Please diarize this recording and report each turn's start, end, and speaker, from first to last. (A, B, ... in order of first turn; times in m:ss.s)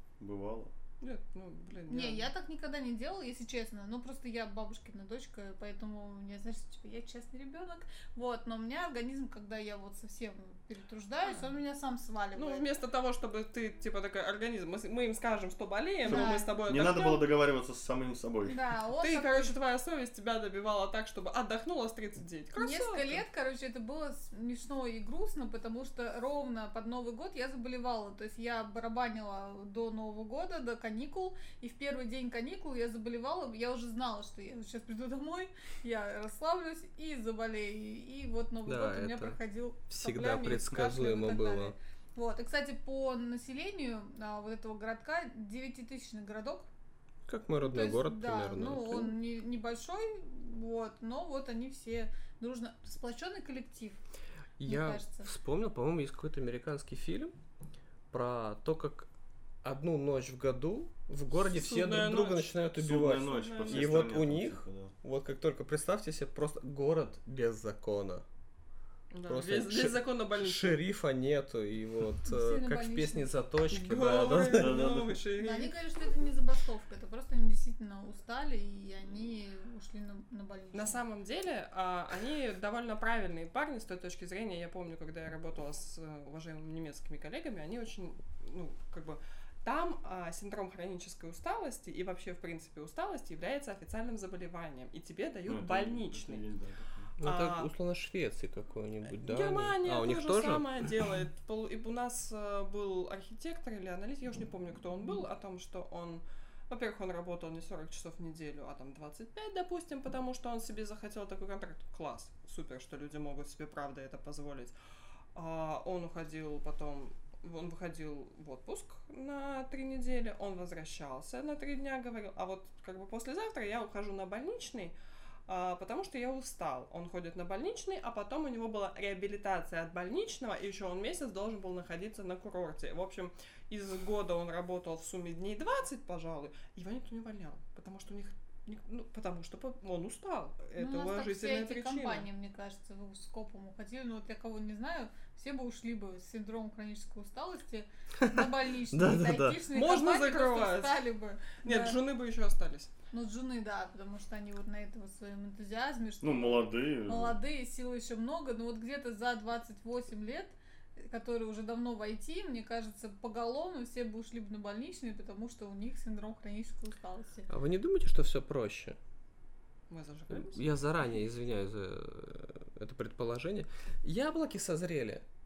0:00.2-0:00.7 A
0:01.0-0:02.3 B
0:01.9-0:12.7 C
0:12.4-0:17.3 B
0:16.0-0:18.6 A
0:16.1-0:16.5 C
0:18.5-0:19.6 C
0:19.0-0:23.2 B
0:22.6-0:46.7 C
0:38.7-0:39.4 D
0:39.9-0:41.7 D
0:47.3-0:49.2 D
0:47.6-0:54.0 C
0:54.6-0:57.3 D
0:54.6-0:55.3 C
0:58.1-0:59.1 D
0:59.6-1:08.2 D
1:01.3-1:02.6 B
1:02.8-1:04.9 A
1:03.2-1:04.2 B
1:09.1-1:10.8 B
1:09.3-1:14.8 D
1:12.3-1:13.3 C
1:13.7-1:15.8 B
1:14.5-1:15.2 A
1:15.4-1:21.0 C
1:20.7-1:36.4 B
1:35.5-1:37.1 A
1:37.2-1:40.7 D
1:37.2-1:37.7 B
1:39.1-1:54.7 B
1:55.4-2:04.9 B
2:05.5-2:22.3 B
2:20.8-2:32.0 C
2:28.2-2:29.6 D
2:29.7-2:31.0 B
2:31.6-2:32.9 B
2:33.1-2:47.5 C
2:36.2-2:37.4 A
2:47.5-2:49.0 D
2:49.9-2:50.6 B
2:50.3-2:55.2 D